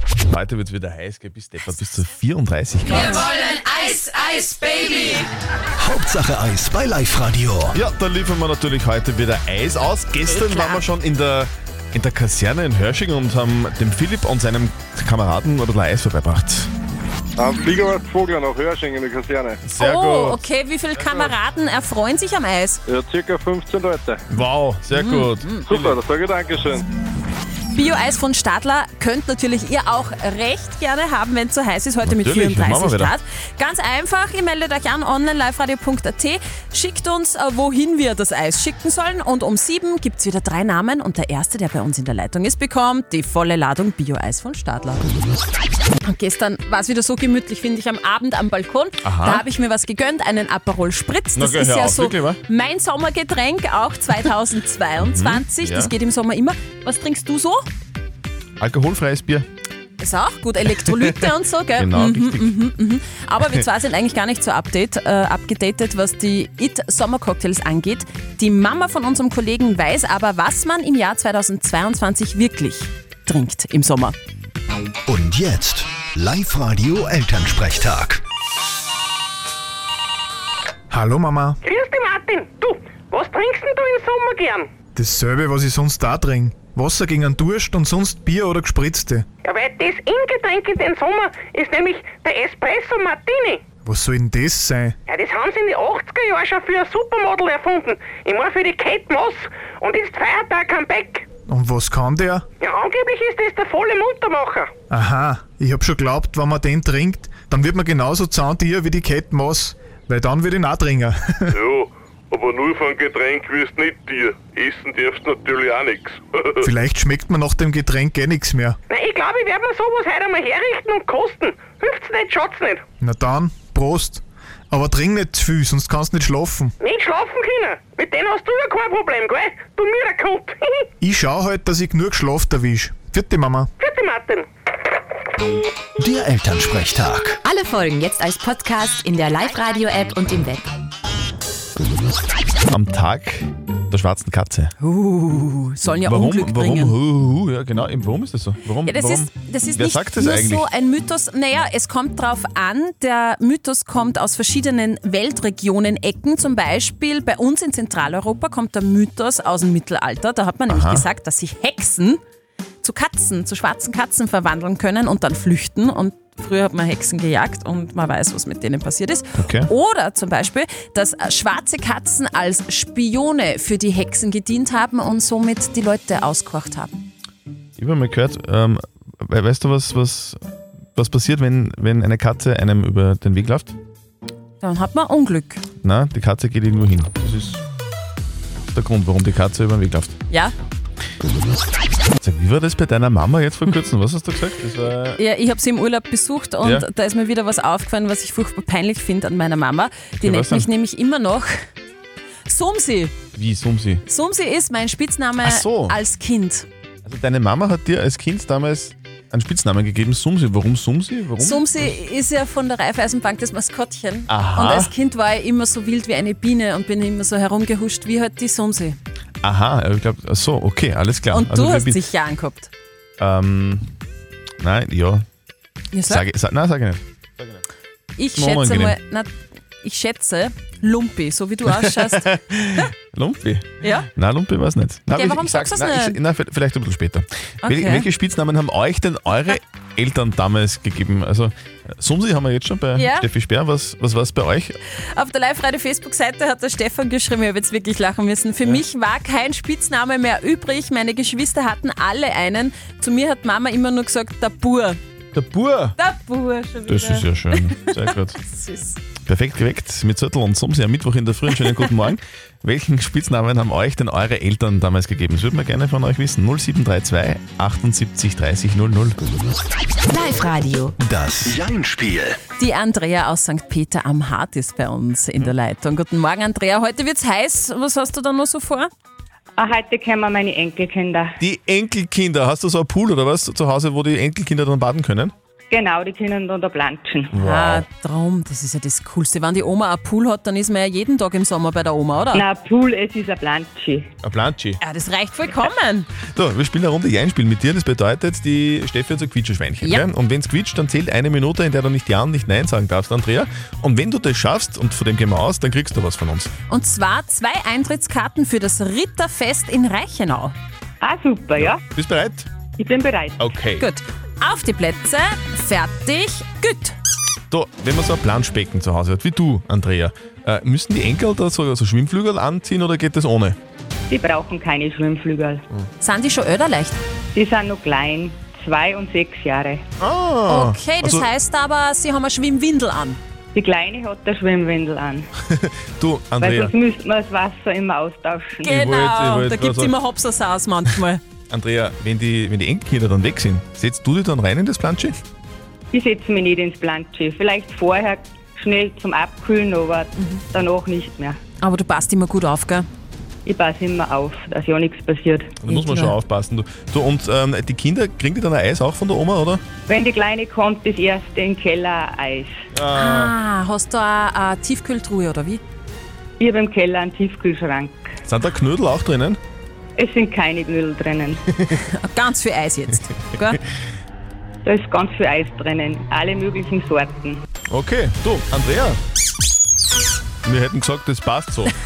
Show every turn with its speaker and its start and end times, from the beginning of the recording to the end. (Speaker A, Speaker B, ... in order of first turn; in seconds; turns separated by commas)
Speaker A: 0.3-3.3, Speaker B: 5.8-7.7, Speaker A: 7.7-16.7, Speaker C: 10.2-10.8, Speaker D: 17.4-19.6, Speaker A: 19.7-20.4, Speaker C: 19.8-22.8, Speaker D: 22.9-24.2, Speaker A: 24.3-25.9, Speaker C: 24.9-25.7, Speaker D: 25.7-26.9, Speaker C: 27.7-45.0, Speaker A: 32.0-33.1, Speaker C: 46.0-57.6, Speaker A: 49.0-49.5, Speaker A: 51.4-52.4, Speaker A: 55.0-55.9, Speaker A: 58.6-59.5, Speaker C: 60.0-74.2, Speaker A: 60.9-62.6, Speaker B: 75.1-78.2, Speaker E: 80.9-81.6, Speaker F: 81.6-84.7, Speaker E: 85.0-89.2, Speaker F: 89.4-93.6, Speaker E: 93.8-94.9, Speaker F: 95.1-101.3, Speaker E: 101.5-102.4, Speaker F: 102.6-104.7, Speaker E: 104.9-111.2, Speaker G: 111.5-116.7, Speaker E: 116.6-118.8, Speaker F: 118.9-122.8, Speaker E: 123.0-126.7, Speaker F: 126.8-130.9, Speaker E: 131.0-133.7, Speaker F: 133.8-134.5, Speaker B: 136.0-137.4, Speaker H: 137.4-140.7, Speaker A: 142.7-144.7, Speaker C: 144.8-146.9, Speaker A: 146.0-150.7, Speaker C: 148.8-162.2, Speaker A: 160.7-161.1, Speaker C: 162.8-177.0, Speaker A: 169.4-169.7, Speaker A: 177.8-180.4, Speaker A: 180.9-183.8, Speaker C: 184.6-185.6, Speaker A: 185.8-187.6, Speaker A: 188.7-190.2, Speaker A: 192.2-195.2, Speaker C: 195.2-201.7, Speaker A: 200.2-200.7, Speaker C: 202.5-203.1, Speaker A: 203.3-204.0, Speaker C: 204.1-206.7, Speaker A: 205.4-206.0, Speaker A: 207.1-211.9, Speaker C: 211.4-219.0, Speaker A: 214.3-214.9, Speaker A: 219.4-222.0, Speaker C: 221.3-222.7, Speaker A: 223.2-223.9, Speaker A: 224.6-225.3, Speaker C: 225.9-226.3, Speaker A: 226.1-227.6, Speaker C: 228.2-232.4, Speaker A: 228.3-229.0, Speaker A: 231.7-244.8, Speaker C: 233.8-234.1, Speaker C: 235.1-236.2, Speaker C: 237.6-238.1, Speaker C: 243.0-243.2, Speaker C: 245.0-255.0, Speaker A: 255.3-255.9, Speaker C: 256.0-259.0, Speaker A: 256.9-258.4, Speaker A: 259.3-269.2, Speaker H: 270.1-270.9, Speaker B: 271.0-272.4, Speaker C: 272.6-278.9, Speaker I: 279.6-281.3, Speaker A: 281.4-285.3, Speaker I: 285.7-287.3, Speaker A: 287.3-287.9, Speaker C: 287.4-292.4, Speaker I: 292.3-294.1, Speaker A: 294.2-294.8, Speaker C: 294.8-296.1, Speaker A: 296.3-306.5, Speaker C: 306.7-310.6, Speaker I: 311.0-311.8, Speaker A: 311.6-312.5, Speaker I: 312.8-313.5, Speaker A: 313.4-313.9, Speaker C: 313.8-317.0, Speaker A: 317.5-323.6, Speaker I: 324.1-325.6, Speaker C: 326.0-327.0, Speaker I: 327.4-329.8, Speaker A: 330.0-331.3, Speaker C: 330.5-333.2, Speaker I: 333.5-335.3, Speaker A: 335.5-336.7, Speaker I: 336.4-338.8, Speaker A: 338.6-340.0, Speaker C: 338.7-341.2, Speaker A: 341.5-345.1, Speaker I: 345.9-351.4, Speaker C: 351.6-352.9, Speaker I: 353.5-355.5, Speaker A: 355.6-359.6, Speaker C: 355.7-356.1, Speaker I: 359.9-362.5, Speaker A: 362.7-363.4, Speaker C: 362.9-365.6, Speaker I: 366.4-368.1, Speaker A: 368.2-369.4, Speaker I: 370.0-371.4, Speaker C: 371.9-373.6, Speaker I: 374.6-377.4, Speaker A: 377.7-379.0, Speaker A: 380.4-381.7